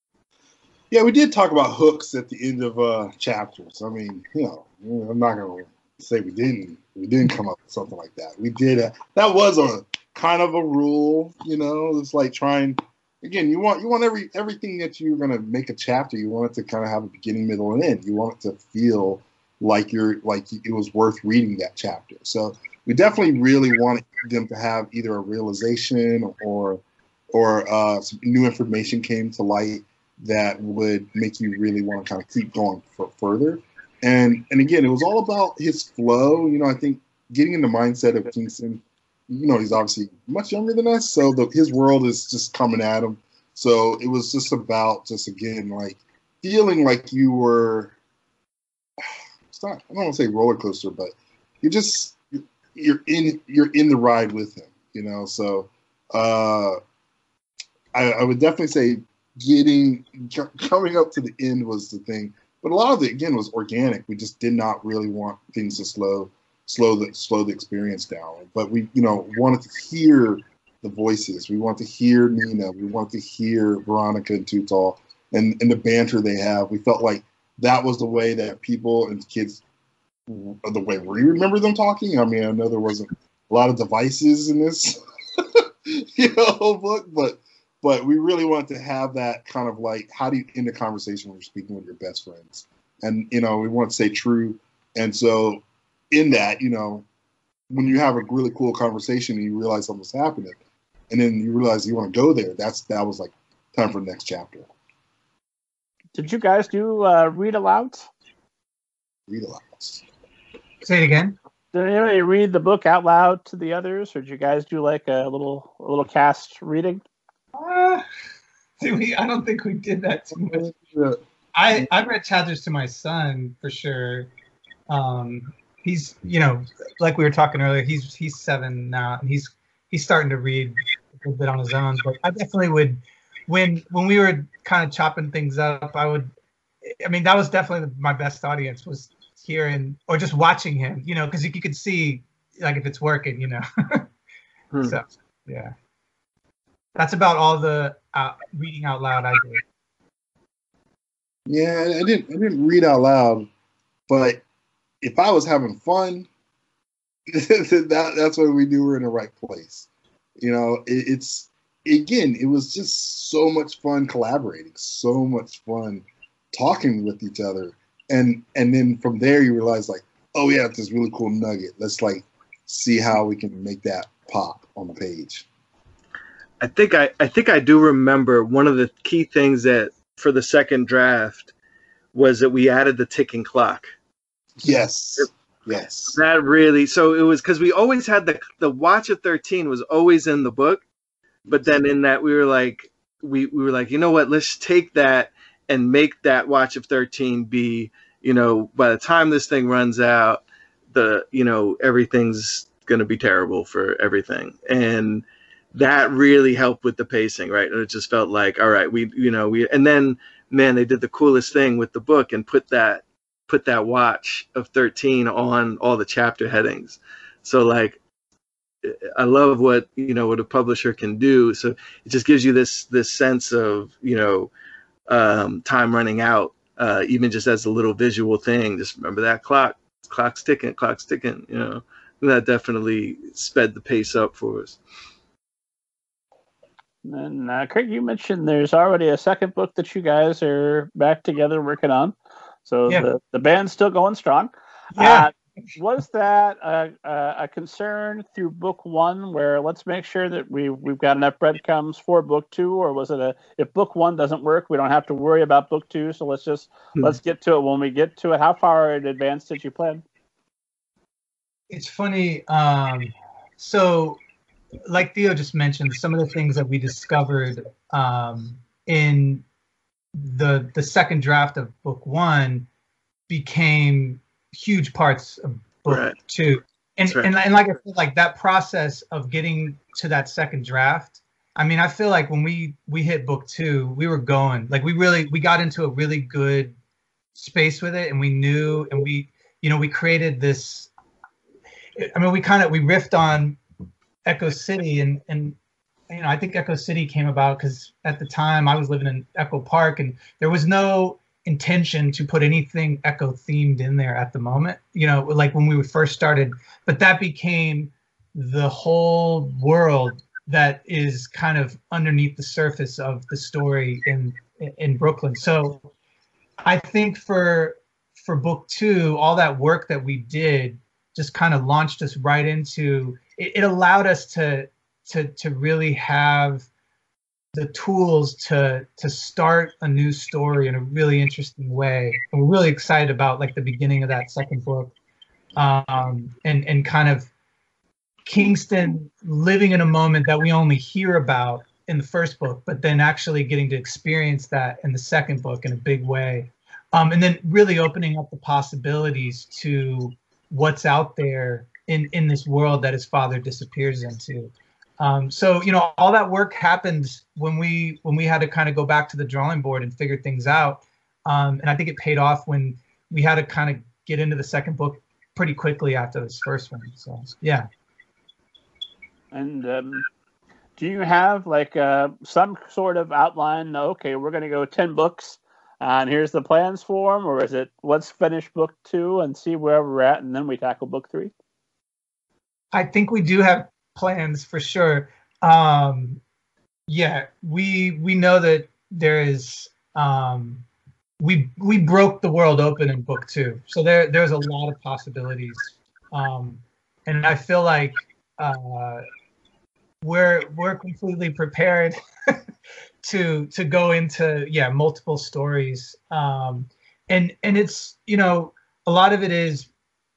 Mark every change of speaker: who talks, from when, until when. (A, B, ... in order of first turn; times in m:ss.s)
0:00.9-0:48.0 A
0:49.0-0:52.2 A
0:52.7-0:56.8 A
0:57.9-1:19.6 A
1:20.3-1:37.0 A
1:37.7-1:40.6 A
1:41.1-1:44.7 A
1:46.1-1:48.1 B
1:49.3-1:50.0 A
1:50.8-1:51.4 C
1:51.7-1:57.0 B
1:57.6-1:58.0 C
1:58.8-2:00.7 C
2:00.3-2:01.2 A
2:01.5-2:04.3 C
2:04.9-2:16.3 C
2:16.9-2:24.1 C
2:24.8-2:25.7 C
2:27.0-2:29.6 C
2:31.5-2:33.5 A
2:34.1-2:34.4 A
2:35.0-2:36.3 A
2:37.3-2:55.5 A
2:56.6-3:01.5 D
3:02.1-3:03.9 D
3:04.6-3:06.2 A
3:06.1-3:10.8 D
3:11.5-3:11.8 A
3:11.5-3:38.0 D
3:38.8-3:44.5 D
3:45.1-3:54.8 D
3:57.0-4:20.0 B
4:05.0-4:05.3 C
4:21.7-4:24.2 C
4:24.9-4:29.4 C
4:30.2-4:32.7 C
4:33.3-4:46.8 C
4:35.9-4:36.2 D
4:47.4-4:50.9 C
4:52.0-4:53.6 C
4:54.3-4:55.6 C
4:56.1-5:15.9 C
5:16.6-5:26.7 C
5:27.5-5:34.9 C
5:35.6-5:37.3 C
5:38.3-6:07.7 C
6:09.3-6:10.0 B
6:10.8-6:21.3 B
6:22.7-6:26.2 C
6:26.9-6:30.6 C
6:31.2-6:39.0 C
6:40.0-6:42.4 C
6:43.0-6:49.7 C